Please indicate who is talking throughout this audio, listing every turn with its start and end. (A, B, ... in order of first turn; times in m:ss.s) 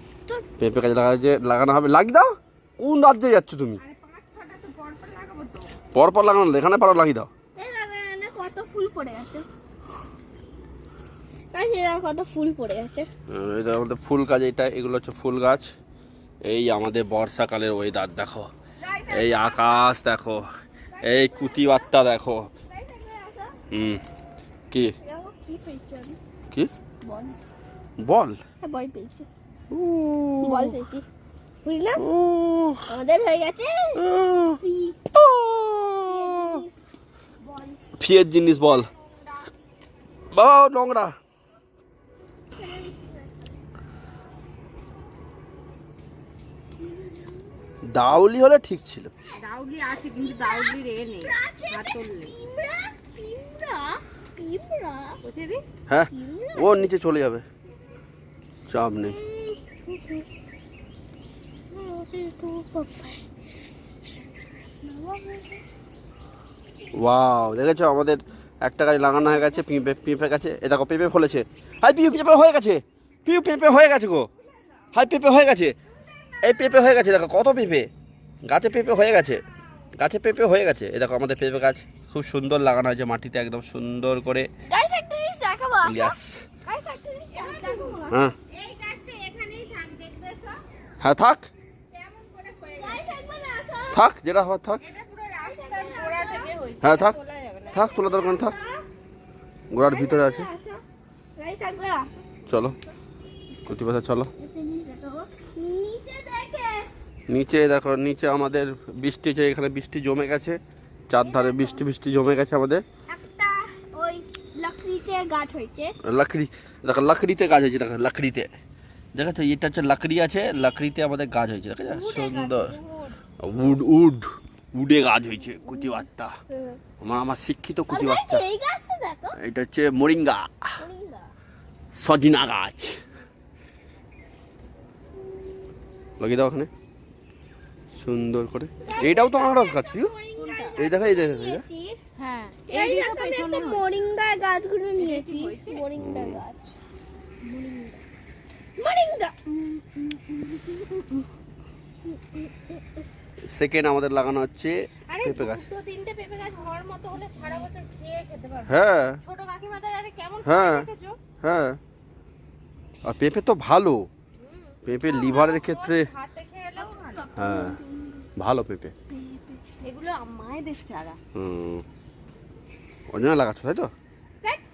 0:00.6-0:03.8 A
0:03.8-0:05.7 B
0:05.9-0:07.3 A
0:07.6-0:09.5 C
0:11.5-0:13.1 C
0:13.3-0:15.7 A
0:16.4-0:18.5 A
0:18.8-0:19.8 C
0:19.1-0:20.5 A
0:20.9-0:22.0 C
0:21.0-0:22.5 A
0:22.7-0:23.5 C
0:23.7-0:24.0 A
0:25.0-0:26.2 C
0:27.0-0:27.4 C
0:28.0-0:28.4 A
0:28.6-0:29.3 C
0:29.7-0:30.8 A
0:30.4-0:31.1 C
0:31.6-0:32.0 C
0:32.0-0:32.9 A
0:32.9-0:34.0 C
0:34.0-0:34.6 A
0:34.6-0:35.0 C
0:35.1-0:36.6 A
0:36.0-0:36.7 C
0:38.0-0:38.9 A
0:40.3-0:41.2 A
0:42.5-0:43.3 C
0:47.8-0:49.1 A
0:49.4-0:52.3 B
0:50.2-0:55.2 C
0:55.2-0:55.6 B
0:55.9-0:57.4 A
0:56.1-0:56.9 C
0:58.7-0:59.2 A
0:59.1-1:00.2 C
1:01.7-1:03.2 C
1:04.1-1:05.6 C
1:06.9-1:14.3 A
1:14.9-1:15.8 A
1:16.4-1:17.9 A
1:18.4-1:19.4 A
1:20.0-1:24.5 A
1:24.7-1:28.3 C
1:25.8-1:26.4 A
1:27.3-1:30.6 B
1:31.0-1:31.5 A
1:31.9-1:33.1 B
1:32.6-1:34.0 C
1:33.9-1:34.8 A
1:34.8-1:37.9 B
1:35.4-1:36.5 C
1:36.8-1:37.2 A
1:37.7-1:38.6 A
1:37.8-1:38.8 C
1:39.7-1:40.5 A
1:39.8-1:40.8 C
1:41.4-1:42.1 C
1:42.5-1:42.8 A
1:43.7-1:44.3 A
1:44.4-1:46.9 C
1:47.3-1:52.8 A
1:51.2-1:51.8 C
1:53.1-1:55.9 C
1:56.0-1:58.5 A
1:59.2-2:02.8 A
2:01.9-2:03.1 C
2:03.4-2:06.4 A
2:05.6-2:06.8 C
2:07.0-2:08.5 A
2:07.9-2:09.4 C
2:09.4-2:10.8 A
2:10.8-2:11.3 C
2:11.9-2:13.0 A
2:16.2-2:16.7 A
2:18.0-2:20.1 A
2:18.8-2:22.0 C
2:20.4-2:20.8 B
2:20.8-2:21.6 A
2:22.2-2:23.9 B
2:22.7-2:26.8 C
2:25.0-2:25.8 B
2:26.0-2:26.4 A
2:27.4-2:28.0 C
2:28.8-2:29.4 C
2:33.5-2:35.7 A
2:35.1-2:41.2 B
2:38.7-2:39.2 A
2:40.4-2:40.9 A
2:41.4-2:41.8 A
2:43.0-2:44.1 A
2:44.4-2:47.3 B
2:44.9-2:46.1 A
2:46.8-2:48.2 C
2:47.4-2:47.8 A
2:48.4-2:48.9 A
2:49.2-2:49.6 C
2:49.8-2:51.2 B
2:51.4-2:51.8 A
2:53.1-2:53.9 A